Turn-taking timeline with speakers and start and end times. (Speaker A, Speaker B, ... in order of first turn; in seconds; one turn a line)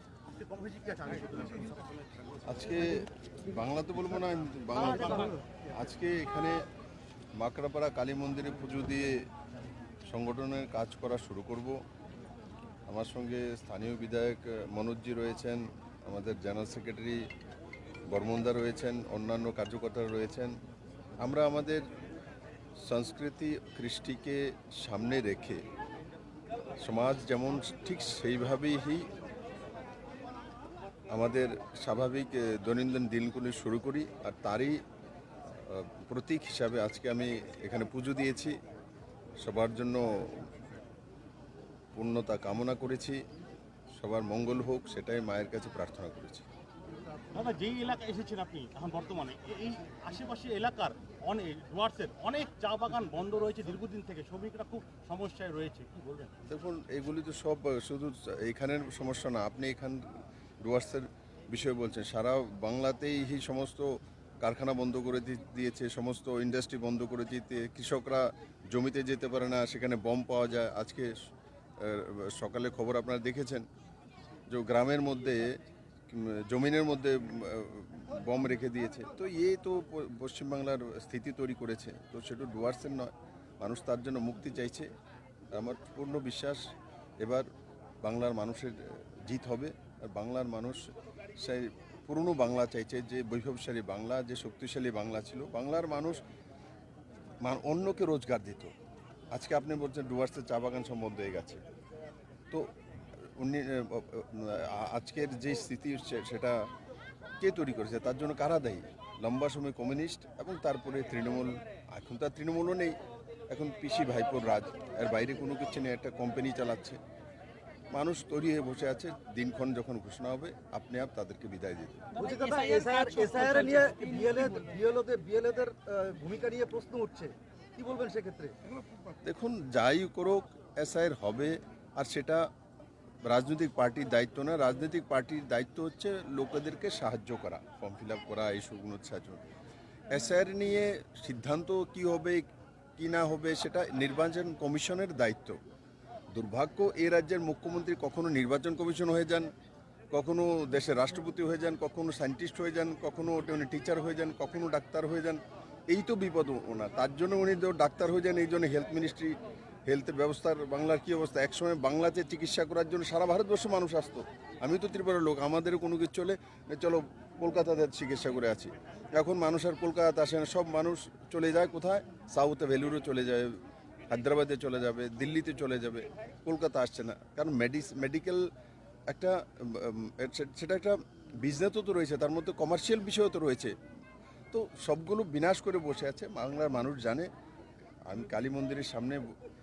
Speaker A: 0.3-2.0
Speaker B: 2.5-6.6
Speaker A: 4.7-5.4
Speaker B: 7.4-9.2
Speaker B: 10.1-11.8
Speaker B: 12.9-17.2
Speaker B: 18.1-20.5
Speaker B: 21.2-21.9
Speaker B: 22.9-25.6
Speaker B: 26.8-29.1
Speaker B: 31.1-34.8
Speaker B: 35.5-38.6
Speaker B: 39.4-40.5
Speaker B: 42.0-43.2
Speaker B: 44.0-46.5
Speaker A: 47.3-56.4
Speaker B: 56.5-71.1
Speaker B: 71.8-73.7
Speaker B: 74.5-75.5
Speaker B: 76.1-84.9
Speaker B: 85.5-86.6
Speaker B: 87.2-87.5
Speaker B: 88.0-90.8
Speaker B: 91.4-96.2
Speaker B: 97.4-98.7
Speaker B: 99.3-101.6
Speaker B: 103.2-106.7
Speaker B: 107.4-113.0
Speaker B: 113.5-117.0
Speaker B: 117.9-122.1
Speaker C: 122.2-128.5
Speaker B: 129.2-132.4
Speaker B: 133.3-139.4
Speaker B: 140.1-145.6
Speaker B: 146.3-149.5
Speaker B: 150.1-173.6
Speaker B: 174.1-178.4
Speaker B: 179.1-183.7
Speaker B: 184.5-187.3
Speaker B: 188.1-189.3